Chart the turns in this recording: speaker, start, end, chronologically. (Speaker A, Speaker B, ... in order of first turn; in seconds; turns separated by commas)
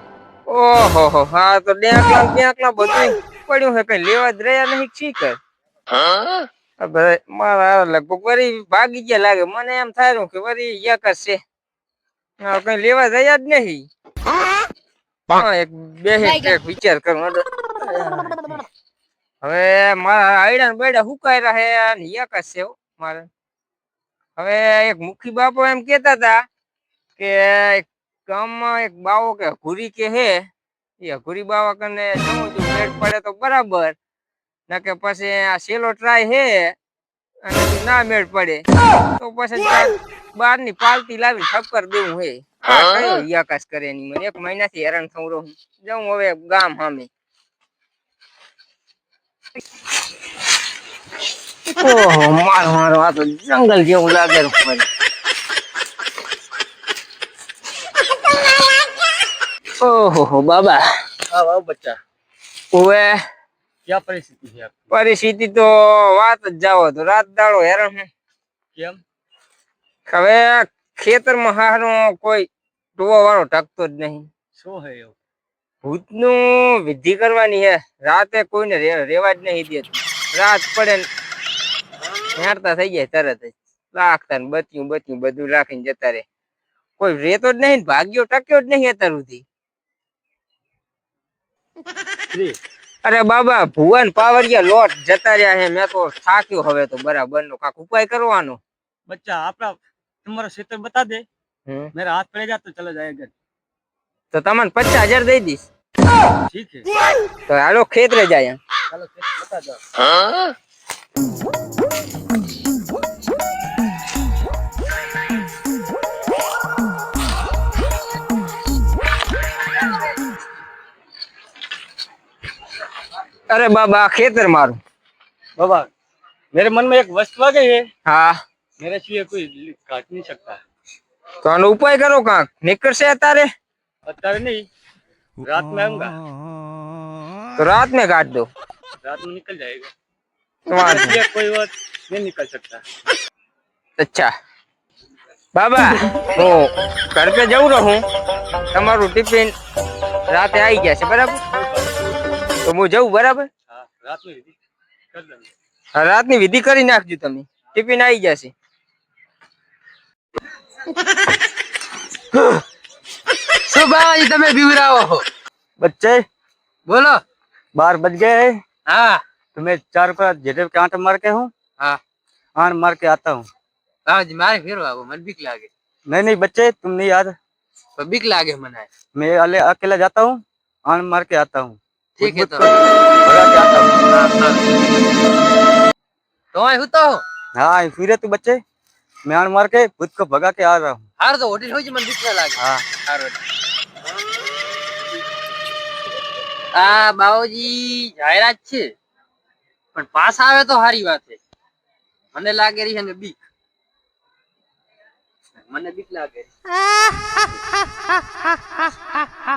Speaker A: 0.5-5.4, Speaker A: 6.8-11.4, Speaker A: 12.4-13.9, Speaker A: 15.3-18.6, Speaker A: 19.4-23.3, Speaker A: 24.4-26.4, Speaker A: 27.2-30.4, Speaker A: 31.0-34.0, Speaker A: 34.7-36.8, Speaker A: 37.4-38.6, Speaker A: 39.2-47.1, Speaker A: 51.7-54.9, Speaker A: 59.8-60.8, Speaker B: 61.3-62.0, Speaker A: 62.7-63.2, Speaker B: 63.9-64.7, Speaker A: 64.9-68.1, Speaker B: 68.7-69.0, Speaker A: 70.1-74.3, Speaker B: 74.6-75.2, Speaker A: 75.8-81.0, Speaker A: 82.4-86.2, Speaker A: 87.0-89.4, Speaker B: 92.3-92.6, Speaker A: 93.0-98.6, Speaker B: 99.1-101.2, Speaker A: 101.7-101.9, Speaker B: 101.9-103.3, Speaker A: 104.3-105.7, Speaker B: 106.5-106.9, Speaker A: 107.5-108.6, Speaker B: 108.9-109.8, Speaker A: 123.5-124.8, Speaker B: 125.6-125.9, Speaker B: 126.5-127.9, Speaker A: 128.1-128.4, Speaker B: 128.8-130.6, Speaker A: 131.4-133.5, Speaker B: 134.1-134.7, Speaker B: 135.4-136.2, Speaker A: 137.6-138.5, Speaker B: 139.0-139.9, Speaker A: 140.7-141.2, Speaker B: 140.7-142.8, Speaker A: 144.0-144.3, Speaker A: 145.6-148.0, Speaker A: 148.7-149.5, Speaker A: 150.3-151.4, Speaker B: 151.5-152.1, Speaker A: 152.7-153.5, Speaker B: 153.7-154.6, Speaker B: 155.1-155.5, Speaker A: 155.9-158.5, Speaker C: 163.7-165.2, Speaker B: 165.8-166.2, Speaker C: 166.9-167.2, Speaker B: 167.8-168.6, Speaker C: 168.9-169.2, Speaker B: 169.6-171.5, Speaker B: 172.6-173.4, Speaker C: 174.1-175.7, Speaker B: 176.1-177.3, Speaker C: 178.0-178.9, Speaker B: 179.1-183.9, Speaker C: 182.2-182.8, Speaker C: 184.1-184.8, Speaker C: 186.5-187.2, Speaker B: 187.6-188.6, Speaker B: 189.3-191.1, Speaker C: 191.2-193.4, Speaker B: 192.6-192.8, Speaker C: 196.7-198.9, Speaker C: 199.9-201.4, Speaker C: 202.3-203.4, Speaker C: 205.6-206.5